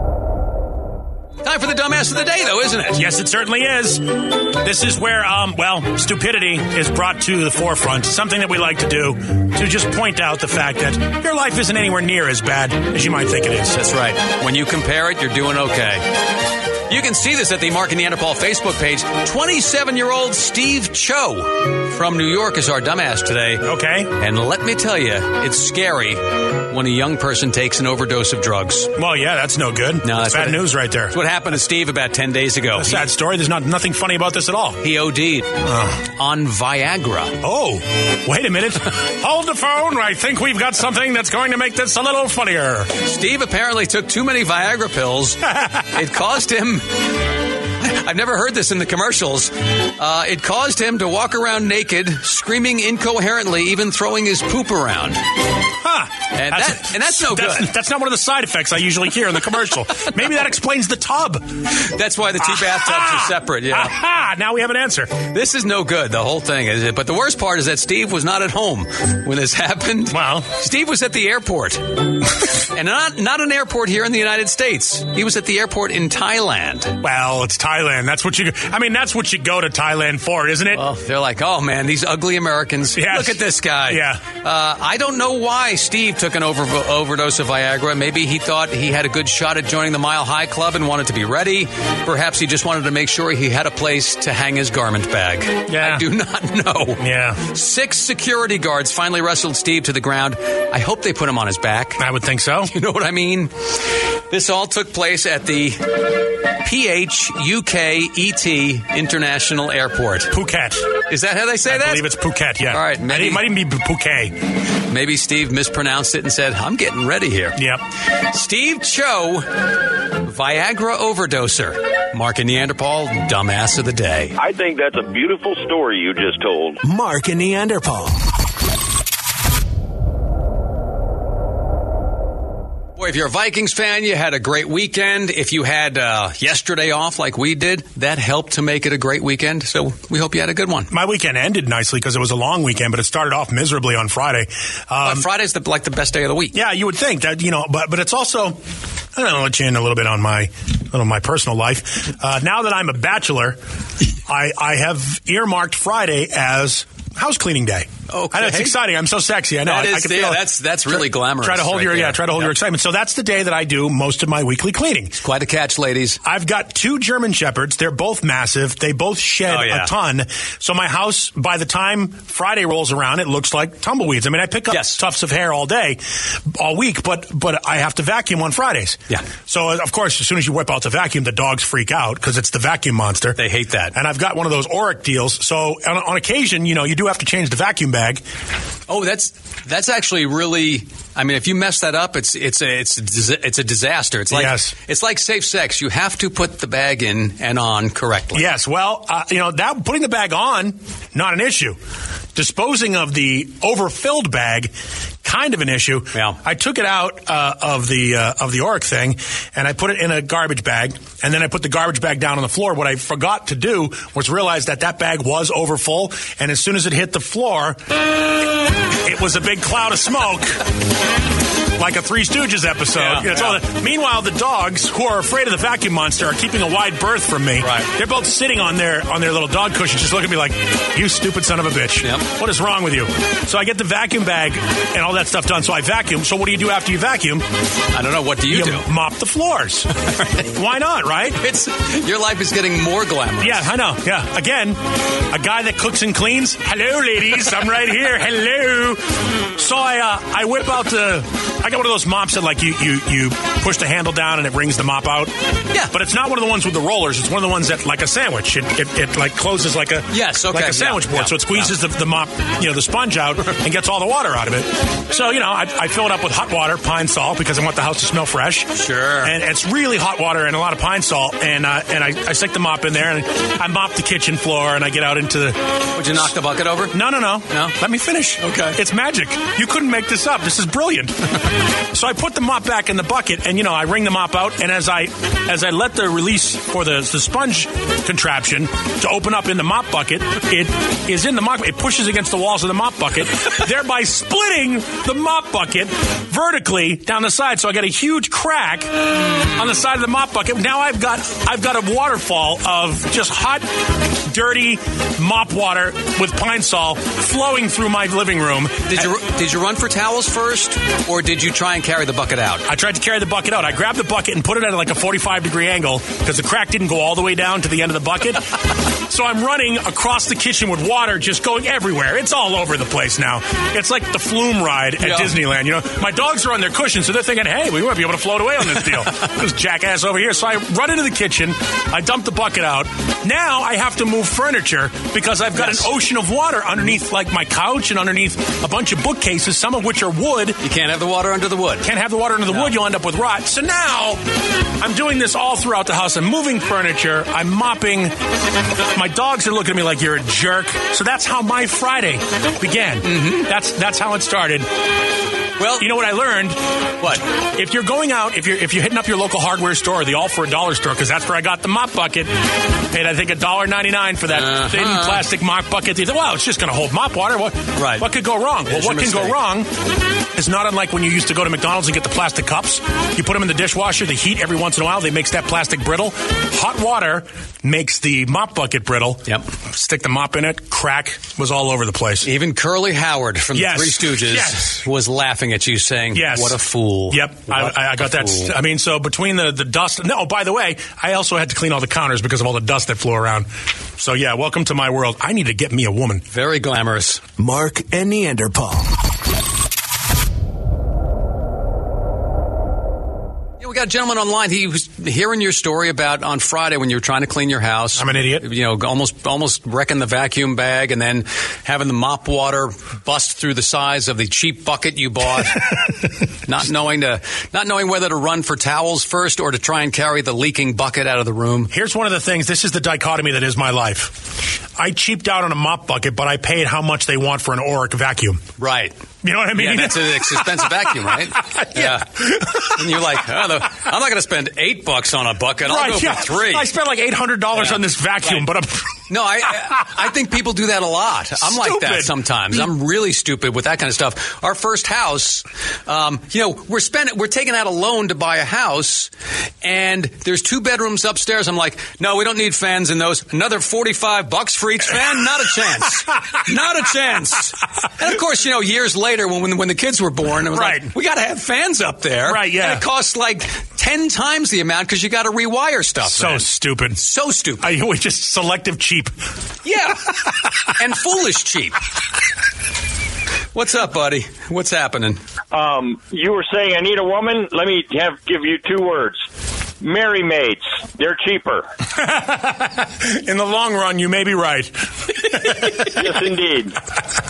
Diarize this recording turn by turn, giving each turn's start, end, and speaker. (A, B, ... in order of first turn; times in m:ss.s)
0:01.4-0:03.0 A
0:03.0-0:13.8 B
0:13.7-0:16.0 A
0:16.9-0:23.7 A
0:23.6-0:24.1 B
0:24.2-0:28.9 A
0:29.0-0:31.2 B
0:30.0-0:33.1 A
0:32.8-0:34.8 B
0:34.8-0:35.5 A
0:35.6-0:36.1 B
0:36.2-0:37.4 A
0:37.4-0:42.9 B
0:43.0-0:46.9 A
0:45.5-0:45.8 B
0:47.8-0:55.2 A
0:55.8-1:01.6 B
0:56.3-0:57.7 A
1:01.8-1:04.0 A
1:02.4-1:05.2 B
1:05.3-1:17.0 A
1:10.1-1:10.6 B
1:17.0-1:20.8 B
1:20.7-1:42.0 A
1:22.9-1:24.2 B
1:35.7-1:36.0 B
1:37.0-1:37.4 B
1:42.0-1:42.7 B
1:42.7-1:43.8 A
1:44.3-1:45.8 A
1:46.6-1:50.3 A
1:50.3-1:51.0 B
1:51.1-1:52.1 A
1:51.7-1:54.4 B
1:52.7-1:53.5 A
1:54.9-1:57.6 A
1:57.6-1:57.8 B
1:58.3-1:59.5 A
2:00.2-2:04.4 A
2:04.4-2:06.8 C
2:06.8-2:08.2 D
2:13.0-2:20.9 A
2:20.9-2:25.3 B
2:25.0-2:26.6 A
2:26.5-2:28.6 B
2:29.2-2:33.6 B
2:34.3-2:45.2 B
2:38.1-2:38.8 A
2:39.6-2:42.5 A
2:45.2-2:46.2 A
2:46.2-3:03.4 B
2:49.5-2:49.9 A
2:54.7-2:55.0 A
3:03.4-3:03.9 A
3:03.9-3:08.2 B
3:08.9-3:18.5 A
3:14.3-3:14.7 B
3:18.3-3:21.8 B
3:22.4-3:24.7 B
3:25.2-3:37.9 B
3:38.9-3:40.6 B
3:41.8-3:57.4 B
3:43.0-3:43.6 A
3:47.6-3:47.9 A
3:57.9-3:58.9 A
3:58.5-4:01.4 B
4:00.1-4:00.4 A
4:01.4-4:03.7 A
4:03.4-4:15.3 B
4:15.9-4:35.6 B
4:20.1-4:21.7 A
4:28.7-4:29.4 A
4:36.0-4:37.0 A
4:36.9-4:41.4 B
4:37.5-4:37.8 A
4:38.4-4:38.8 A
4:41.9-5:09.1 B
5:08.9-5:12.7 A
5:12.7-5:40.6 B
5:25.0-5:25.4 A
5:35.6-5:35.9 A
5:40.6-5:41.9 A
5:41.8-5:44.2 B
5:44.8-5:48.2 B
5:48.8-5:54.7 B
5:53.0-5:53.5 A
5:55.6-5:55.9 A
5:55.8-6:02.3 B
6:02.9-6:09.7 B
6:04.3-6:05.2 A
6:07.8-6:08.1 A
6:08.7-6:09.4 A
6:10.3-6:22.3 B
6:22.2-6:28.5 A
6:23.5-6:24.8 B
6:26.1-6:26.6 B
6:27.1-6:36.2 B
6:36.3-6:37.2 A
6:37.4-6:38.9 D
6:43.6-6:55.7 A
6:48.0-6:48.4 B
6:56.4-7:01.7 A
7:01.7-7:04.2 B
7:04.8-7:08.4 B
7:08.6-7:09.0 A
7:09.2-7:13.2 B
7:09.6-7:16.7 A
7:15.6-7:19.0 B
7:17.6-7:18.5 A
7:19.1-7:29.1 A
7:21.4-7:22.6 B
7:29.6-7:47.7 A
7:40.5-7:40.9 B
7:42.2-7:42.8 B
7:46.0-7:47.0 B
7:47.6-7:49.2 B
7:49.6-7:51.8 A
7:53.5-7:55.2 A
7:55.5-7:59.2 E
7:59.8-8:01.7 E
8:02.0-8:05.9 B
8:05.8-8:06.8 E